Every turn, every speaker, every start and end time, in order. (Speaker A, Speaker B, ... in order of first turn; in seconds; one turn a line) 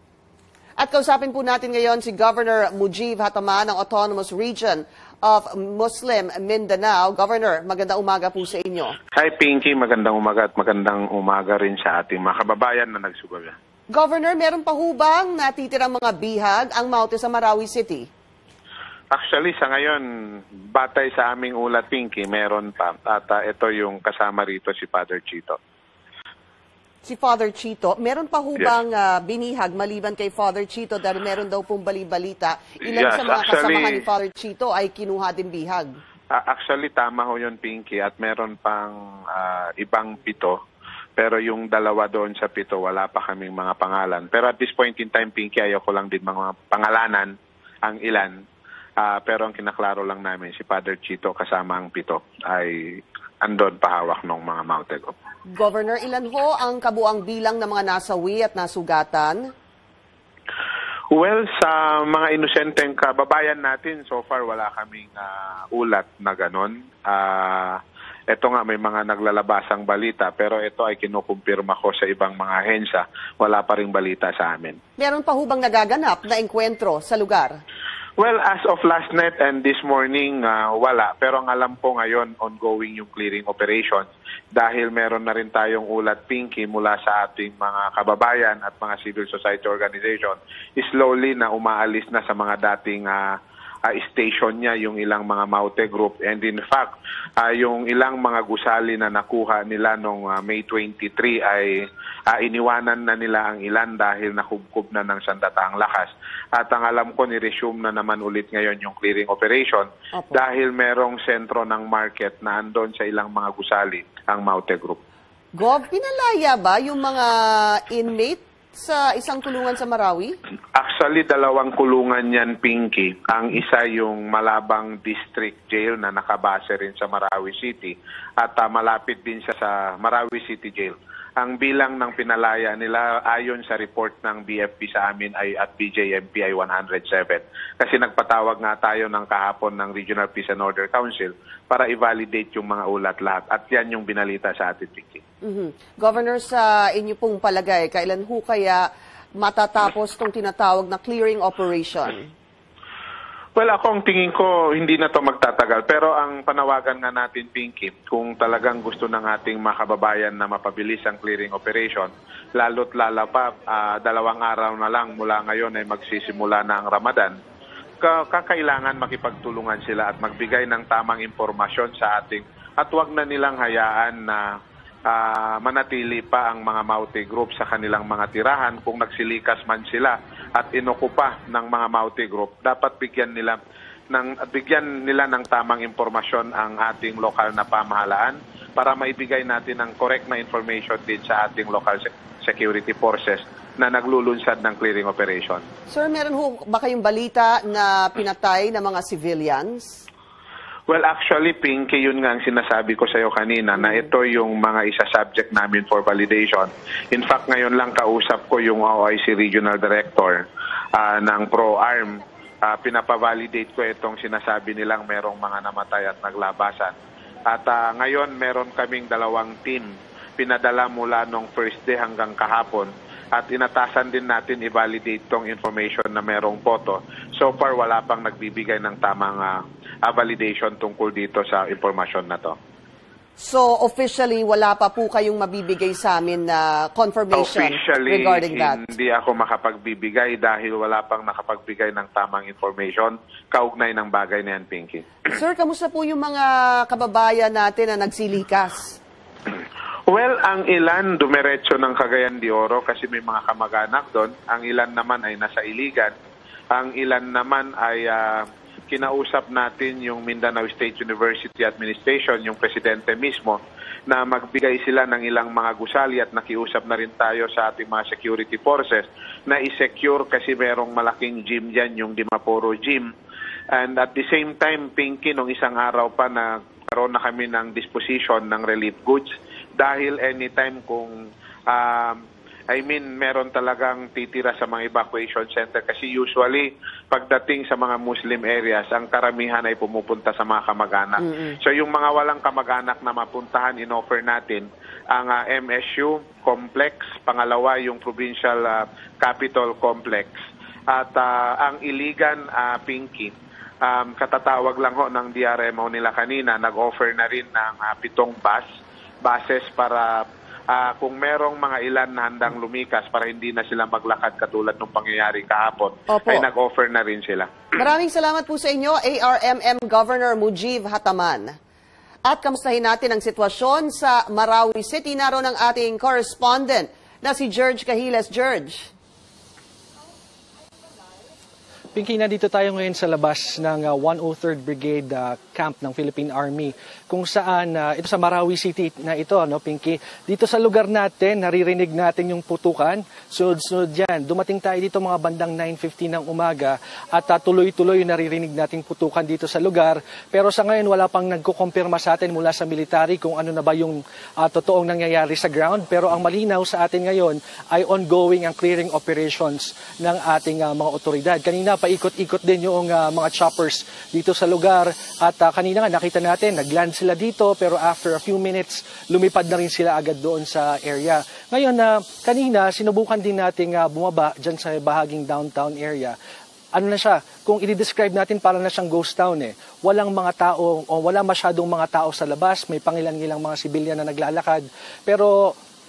Speaker A: 0.8-8.9
Speaker B: 9.2-13.5
Speaker A: 13.9-18.1
Speaker B: 19.1-20.0
Speaker B: 20.7-25.6
Speaker A: 27.0-35.9
Speaker B: 32.9-34.0
Speaker B: 36.3-40.5
Speaker B: 41.2-47.3
Speaker B: 47.8-48.4
Speaker B: 49.0-55.1
Speaker A: 55.5-59.5
Speaker B: 61.1-67.8
Speaker B: 68.3-74.8
Speaker A: 75.0-77.6
Speaker B: 78.2-93.3
Speaker B: 93.8-115.0
Speaker A: 115.6-120.3
Speaker B: 120.7-145.2
Speaker A: 145.4-148.8
Speaker A: 149.4-152.3
Speaker B: 153.6-167.4
Speaker B: 168.0-174.4
Speaker B: 175.1-183.6
Speaker B: 184.1-195.7
Speaker A: 195.9-200.0
Speaker B: 200.9-210.4
Speaker B: 210.9-216.9
Speaker B: 217.5-232.6
Speaker A: 233.4-238.8
Speaker B: 237.3-245.0
Speaker A: 245.3-249.0
Speaker B: 250.1-256.1
Speaker B: 256.7-273.1
Speaker B: 273.7-281.1
Speaker B: 281.7-282.2
Speaker B: 282.7-300.4
Speaker B: 300.9-308.6
Speaker B: 309.2-317.7
Speaker A: 316.1-316.4
Speaker A: 317.8-321.6
Speaker A: 322.2-328.9
Speaker C: 331.9-376.1
Speaker C: 376.7-385.5